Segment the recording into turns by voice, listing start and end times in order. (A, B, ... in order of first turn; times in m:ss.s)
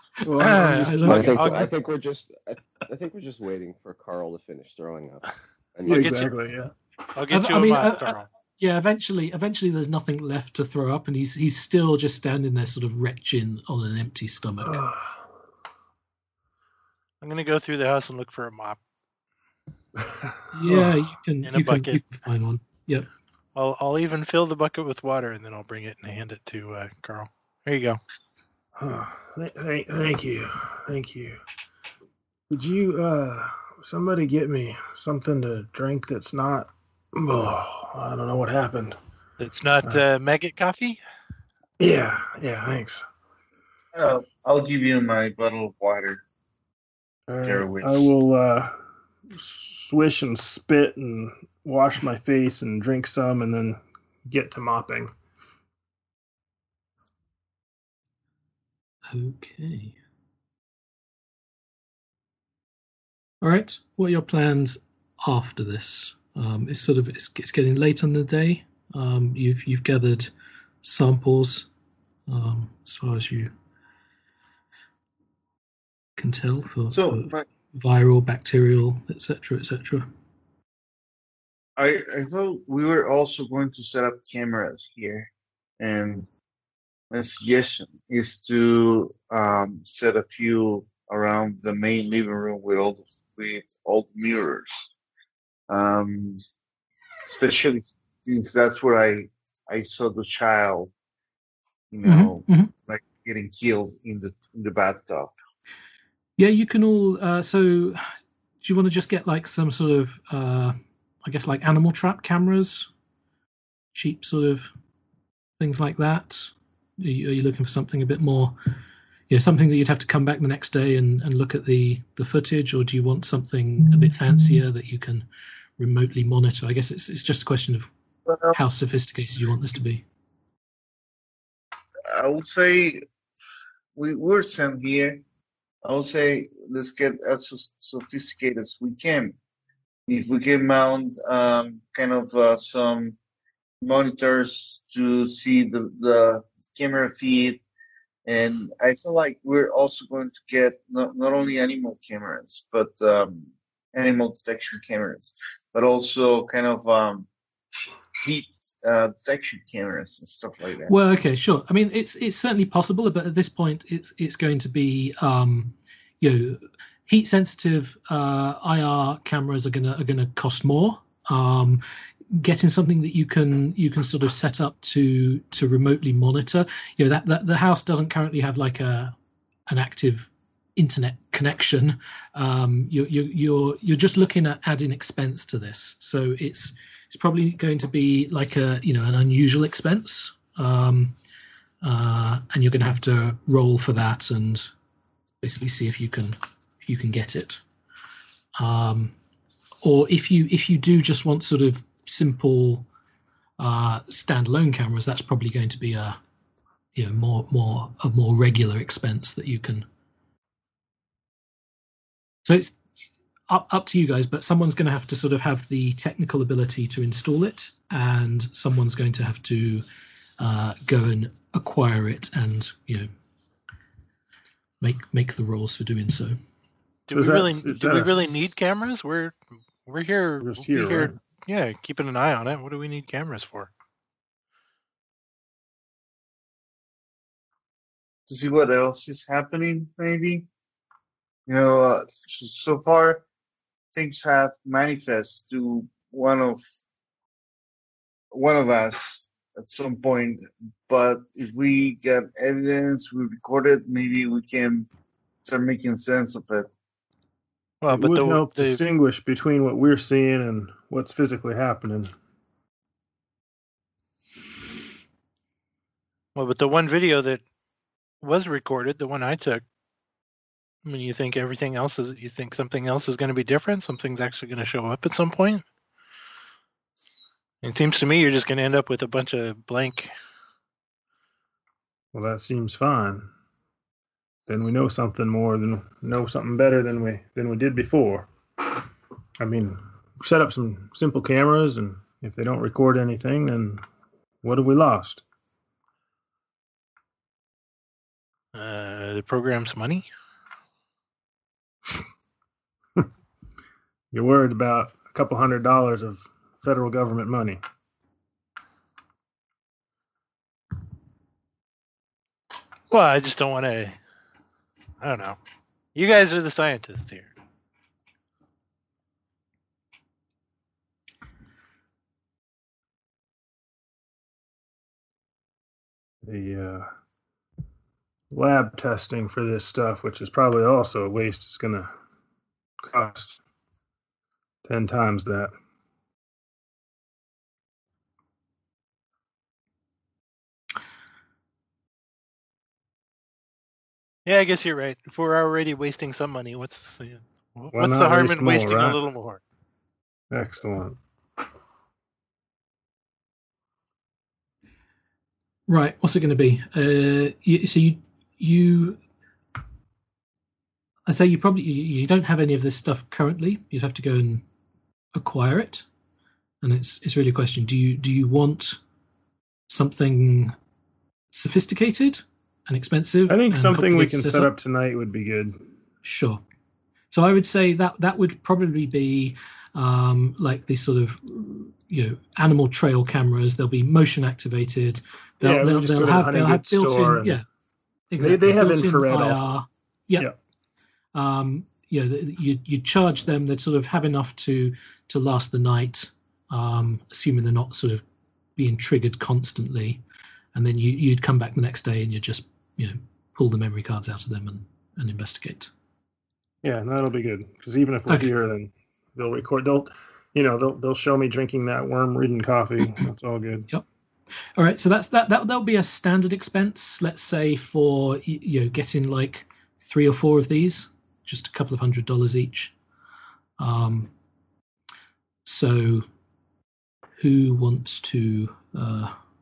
0:00.2-0:01.6 A
0:00.2-0:01.7 B
0:00.4-0:01.5 C
0:01.0-0:06.2 D
0:05.8-0:06.7 A
0:05.8-0:06.3 C
0:07.1-0:08.3 C
0:07.3-0:14.8 B
0:14.6-0:15.2 A
0:17.2-0:18.8 C
0:20.0-0:21.0 A
0:20.5-0:23.1 B
0:21.4-0:22.0 C
0:23.5-0:28.0 C
0:28.8-0:31.4 A
0:32.5-0:39.0 A
0:39.4-0:41.0 C
0:41.8-0:43.0 A
0:43.9-0:46.2 E
0:47.3-0:55.1 A
0:47.4-0:48.0 E
0:59.1-1:00.0 B
1:03.4-1:10.3 B
1:10.8-1:11.7 B
1:12.3-1:13.5 B
1:16.2-1:20.1 B
1:16.9-1:17.4 E
1:21.8-1:25.3 E
1:25.8-1:26.3 E
1:27.1-1:34.9 E
1:35.7-1:36.4 E
1:37.3-1:40.9 E
1:41.9-1:45.3 E
1:42.0-1:42.7 B
1:46.4-1:48.0 B
1:48.6-1:52.9 B
1:53.9-1:54.7 B
1:55.6-1:58.6 B
1:59.3-2:05.2 B
2:05.8-2:07.9 B
2:08.5-2:10.0 B
2:12.1-2:13.0 E
2:14.0-2:15.2 E
2:15.8-2:19.4 E
2:20.1-2:23.2 E
2:23.8-2:27.6 E
2:28.2-2:37.3 E
2:38.2-2:40.9 E
2:40.9-2:59.1 B
2:59.7-3:11.2 B
3:11.8-3:14.7 B
3:15.4-3:17.6 B
3:18.6-3:19.1 B
3:19.8-3:22.9 B
3:23.6-3:26.2 B
3:26.9-3:29.8 B
3:32.4-3:32.8 B
3:33.5-3:39.8 B
3:40.4-3:43.1 B
3:44.8-3:46.4 B
3:47.1-3:49.3 C
3:47.1-3:48.5 A
3:49.8-3:53.7 C
3:50.4-3:51.2 A
3:58.3-4:00.5 E
4:01.5-4:03.2 E
4:03.9-4:06.6 E
4:08.3-4:14.9 E
4:15.4-4:16.7 E
4:17.8-4:18.8 C
4:17.9-4:22.1 A
4:26.3-4:27.4 C
4:28.2-4:29.6 C
4:30.8-4:35.6 C
4:37.6-4:40.1 C
4:42.1-4:43.3 A
4:44.5-4:48.3 A
4:49.4-4:53.8 A
4:54.4-4:55.2 A
4:58.5-5:00.1 C
5:04.1-5:07.6 A
5:12.9-5:14.0 C
5:15.0-5:15.4 C
5:15.9-5:17.3 C
5:26.2-5:26.9 A
5:28.3-5:31.9 A
5:32.8-5:33.4 A
5:34.6-5:35.5 A
5:44.2-5:49.4 C
5:47.7-5:49.0 A
5:50.3-5:51.0 A
5:55.7-5:59.0 B
6:01.1-6:04.4 B
6:05.1-6:05.8 B
6:06.6-6:08.8 B
6:09.7-6:10.5 B
6:11.3-6:14.5 B
6:13.3-6:15.6 A
6:16.0-6:16.4 B
6:17.1-6:27.4 B
6:25.4-6:27.4 A
6:28.1-6:30.3 B
6:28.2-6:29.4 A
6:31.1-6:38.0 B
6:38.6-6:40.0 B
6:40.5-6:45.7 B
6:46.6-6:53.7 A
6:54.6-7:02.7 B
7:03.6-7:04.1 B
7:05.4-7:06.0 B
7:07.2-7:09.2 B